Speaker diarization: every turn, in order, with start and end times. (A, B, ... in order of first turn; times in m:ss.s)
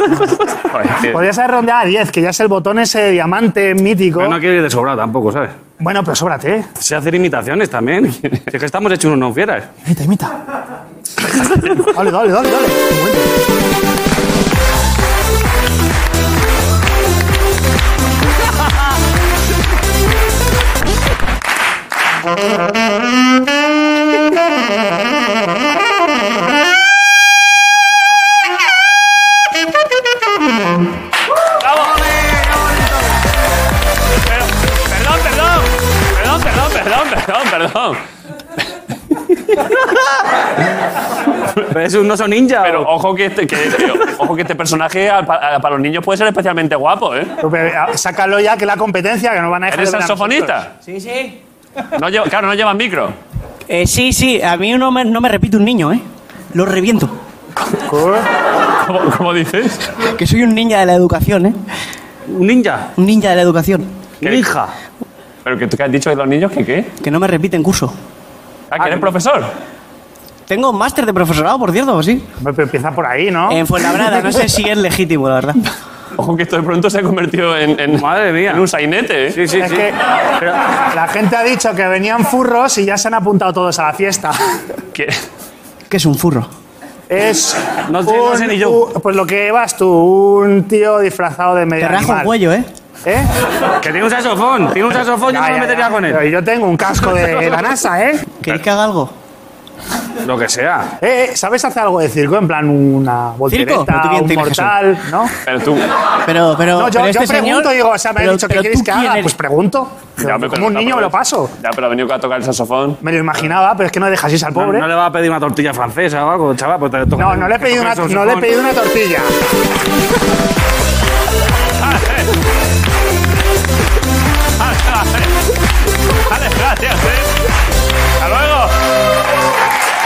0:00.7-0:01.2 A
0:01.0-0:04.4 B
0:04.2-0:05.5 C
0:05.8-0:06.7 B
0:06.8-0:09.7 C
0:09.8-0:10.3 B
0:11.8-0:13.3 B
0:31.6-0:32.0 A
0:31.9-0:32.8 C
0:34.3-0:38.0 A
0:41.7-0:42.9 C
0:42.6-0:47.3 A
0:47.4-0:50.6 B
0:49.7-0:50.7 A
0:51.9-0:53.1 A
0:53.7-0:57.1 D
0:57.8-0:58.2 B
0:58.8-0:59.9 A
1:00.2-1:01.6 D
1:02.3-1:02.9 C
1:03.0-1:03.9 D
1:04.2-1:04.5 A
1:04.2-1:04.7 C
1:05.4-1:06.9 A
1:07.0-1:07.9 D
1:08.7-1:09.5 A
1:08.8-1:09.1 C
1:10.5-1:12.2 D
1:12.4-1:14.4 B
1:13.5-1:15.6 D
1:16.2-1:19.4 A
1:17.9-1:18.6 C
1:19.3-1:19.9 C
1:19.6-1:24.4 B
1:24.9-1:25.2 A
1:25.9-1:26.5 D
1:27.1-1:32.4 B
1:27.9-1:28.8 C
1:31.8-1:32.7 D
1:33.0-1:33.3 B
1:33.8-1:36.2 C
1:35.2-1:38.3 B
1:38.4-1:39.1 D
1:40.2-1:40.9 C
1:41.0-1:45.3 B
1:43.5-1:44.8 D
1:45.4-1:45.9 A
1:46.2-1:49.3 D
1:46.7-1:51.5 B
1:50.2-1:53.0 A
1:53.0-1:54.9 B
1:54.6-1:58.5 C
1:57.2-1:59.3 B
2:01.8-2:02.3 A
2:04.6-2:05.4 A
2:06.2-2:07.3 A
2:08.2-2:08.8 A